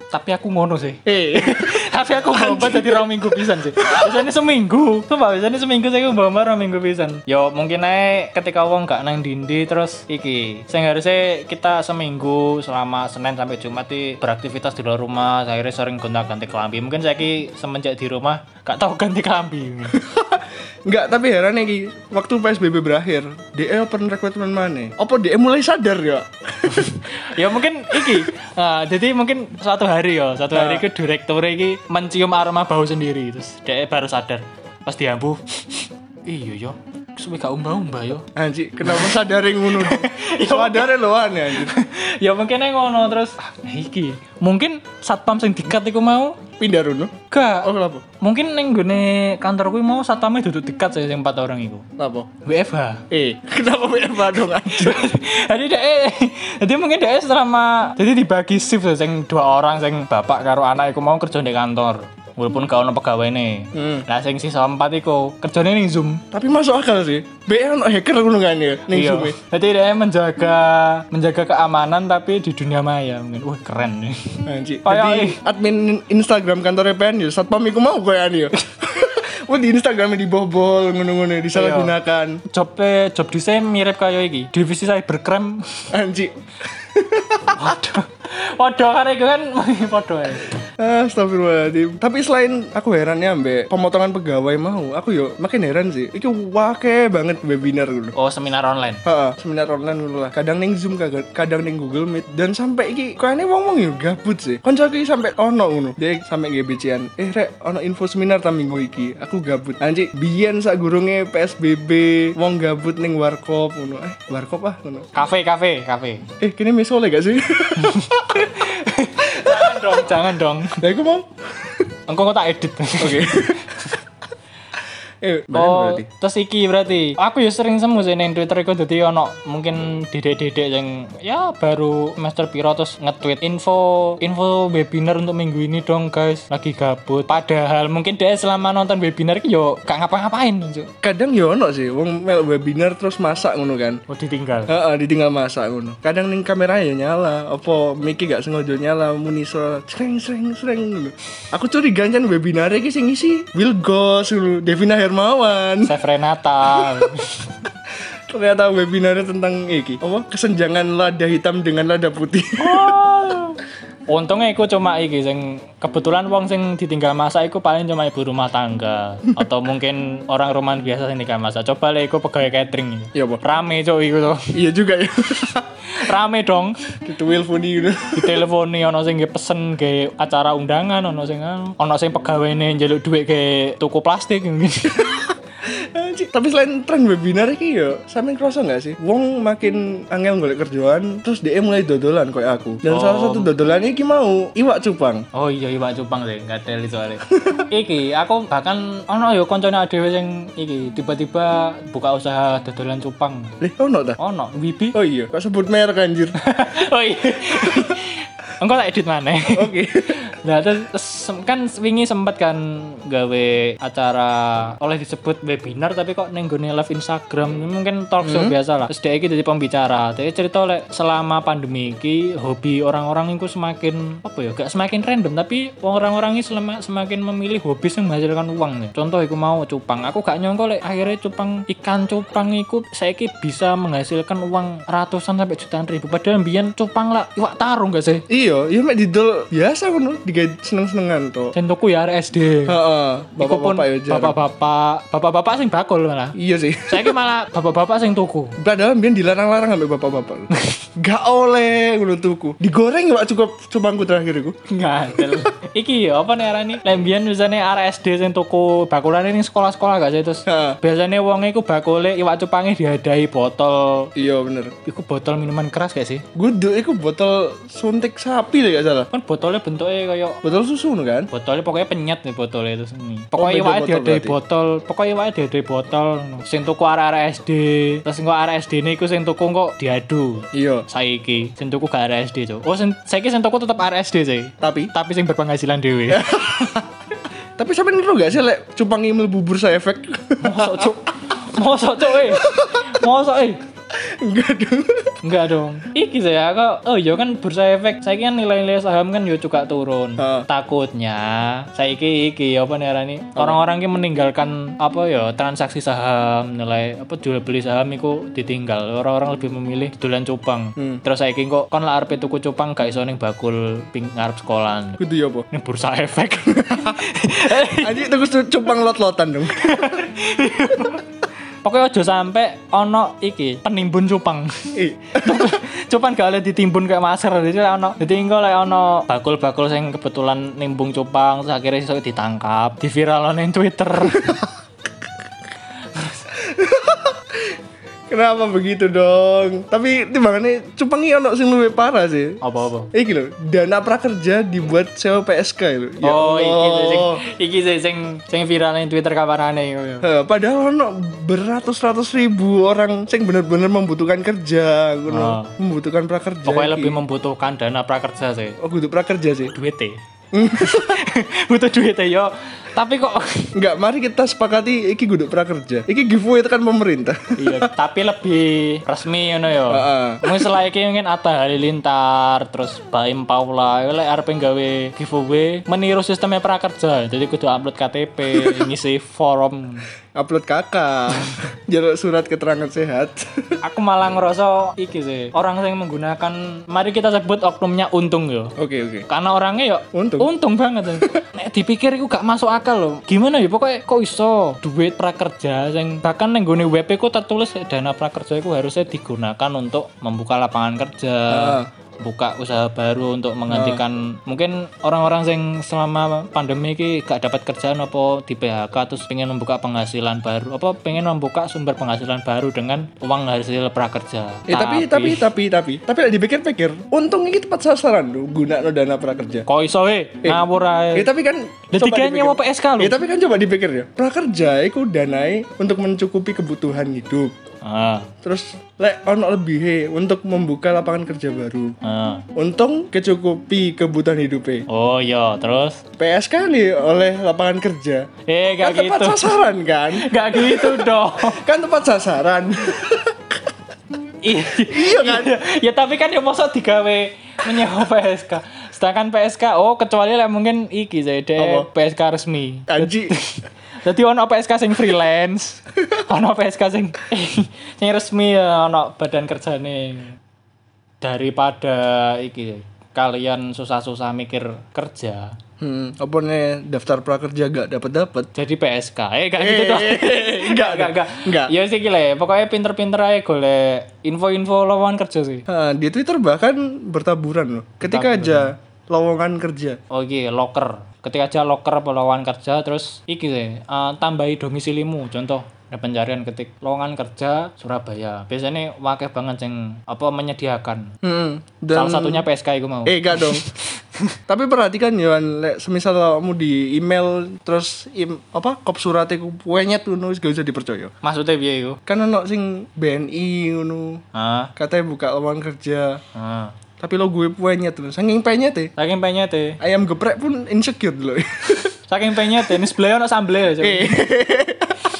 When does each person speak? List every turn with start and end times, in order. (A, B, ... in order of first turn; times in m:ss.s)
0:00.1-0:20.0 A
0:01.0-0:04.3 B
0:20.0-0:27.0 B
0:26.6-0:38.3 A
0:27.9-0:28.2 B
0:30.5-0:30.8 B
0:38.3-0:41.8 B
0:38.8-0:46.4 A
0:46.6-0:48.0 B
0:47.3-0:51.8 A
0:52.0-0:52.3 B
0:52.4-0:53.1 A
0:53.1-0:55.0 B
0:54.2-1:06.2 A
1:03.7-1:04.0 B
1:06.3-1:09.4 B
1:08.9-1:15.4 A
1:14.4-1:22.4 B
1:21.5-1:21.9 A
1:22.5-1:25.9 A
1:25.9-1:27.7 B
1:27.5-1:30.6 A
1:30.8-1:38.1 B
1:38.2-1:39.0 A
1:39.0-1:55.1 B
1:55.1-1:56.2 A
1:56.4-1:58.5 B
1:57.7-2:00.8 A
2:00.8-2:01.9 B
2:02.1-2:03.9 A
2:03.0-2:03.9 B
2:05.2-2:06.0 B
2:05.5-2:20.9 A
2:21.0-2:24.0 B
2:24.1-2:24.7 A
2:24.7-2:35.9 B
2:35.8-2:37.5 A
2:36.7-2:37.1 B
2:38.3-2:43.0 B
2:42.6-2:54.6 A
2:53.1-2:53.4 B
2:54.5-2:55.7 B
2:55.9-2:56.8 A
2:57.0-2:58.4 B
2:58.1-3:05.3 A
3:04.9-3:15.3 B
3:12.8-3:13.5 A
3:15.3-3:23.5 A
3:17.3-3:17.6 B
3:23.6-3:24.2 B
3:24.2-3:25.0 A
3:24.9-3:26.4 B
3:26.4-3:58.2 A
3:29.5-3:30.2 B
3:38.2-3:38.5 B
3:58.3-4:01.5 B
4:01.5-4:02.8 A
4:02.7-4:04.4 B
4:03.4-4:06.4 A
4:06.3-4:07.1 B
4:06.9-4:08.6 A
4:08.6-4:14.6 B
4:14.7-4:24.1 A
4:20.5-4:20.8 B
4:24.2-4:24.7 B
4:24.8-4:26.2 A
4:26.3-4:29.1 B
4:29.1-4:30.4 A
4:30.4-4:31.3 B
4:31.3-4:46.8 A
4:33.4-4:34.4 B
4:40.5-4:40.8 B
4:44.6-4:44.9 B
4:46.1-4:46.9 B
4:47.6-4:51.0 B
4:50.4-4:53.6 A
4:52.1-4:52.9 B
4:54.0-4:55.2 B
4:55.2-5:15.0 A
5:00.2-5:00.4 B
5:15.0-5:15.5 B
5:15.5-5:18.1 A
5:16.6-5:17.0 B
5:17.5-5:20.1 B
5:19.5-5:21.1 A
5:21.6-5:34.4 A
5:24.7-5:25.5 B
5:35.9-5:36.3 A
5:36.3-5:37.6 B
5:38.1-5:42.4 B
5:42.4-5:42.9 A
5:42.9-5:47.2 B
5:46.0-5:50.1 A
5:50.0-5:57.0 B
5:55.1-5:55.5 A
5:56.4-5:58.6 A
5:58.6-5:59.5 B
5:59.5-6:00.0 A
6:00.3-6:01.0 B
6:00.5-6:03.5 A
6:03.5-6:07.7 B
6:07.4-6:19.9 A
6:09.7-6:10.5 B
6:18.3-6:18.7 B
6:20.1-6:23.6 B
6:23.6-6:28.5 A
6:28.6-6:29.0 B
6:29.1-6:55.3 A
6:29.9-6:30.3 B
6:41.3-6:41.7 B
6:43.5-6:43.8 B
6:54.5-6:59.4 B
6:59.5-7:01.1 A
7:00.9-7:07.3 B
7:01.7-7:03.0 A
7:07.6-7:08.1 A
7:08.2-7:11.8 B
7:11.8-7:12.2 A
7:12.3-7:14.6 B
7:14.7-7:15.8 A
7:16.0-7:18.1 B
7:18.3-7:21.4 A
7:18.6-7:23.4 B
7:24.2-7:40.2 A
7:24.6-7:25.3 B
7:31.4-7:31.7 B
7:32.7-7:33.2 B
7:41.0-7:45.4 A
7:45.6-7:48.3 B
7:48.3-7:55.4 A
7:49.4-7:51.5 B
7:55.5-7:59.8 B
7:57.8-7:58.5 A
7:59.9-8:10.9 A
8:11.0-8:12.2 B
8:11.7-8:14.2 A
8:12.8-8:13.4 B
8:14.3-8:20.9 B
8:21.0-8:21.8 A
8:21.9-8:24.0 B
8:24.1-8:24.5 A
8:24.6-8:26.0 B
8:26.1-8:26.5 A
8:26.8-8:28.7 B
8:28.8-8:29.6 A
8:29.6-8:31.7 B
8:31.9-8:34.0 A
8:32.3-8:32.6 B
8:33.6-8:34.9 B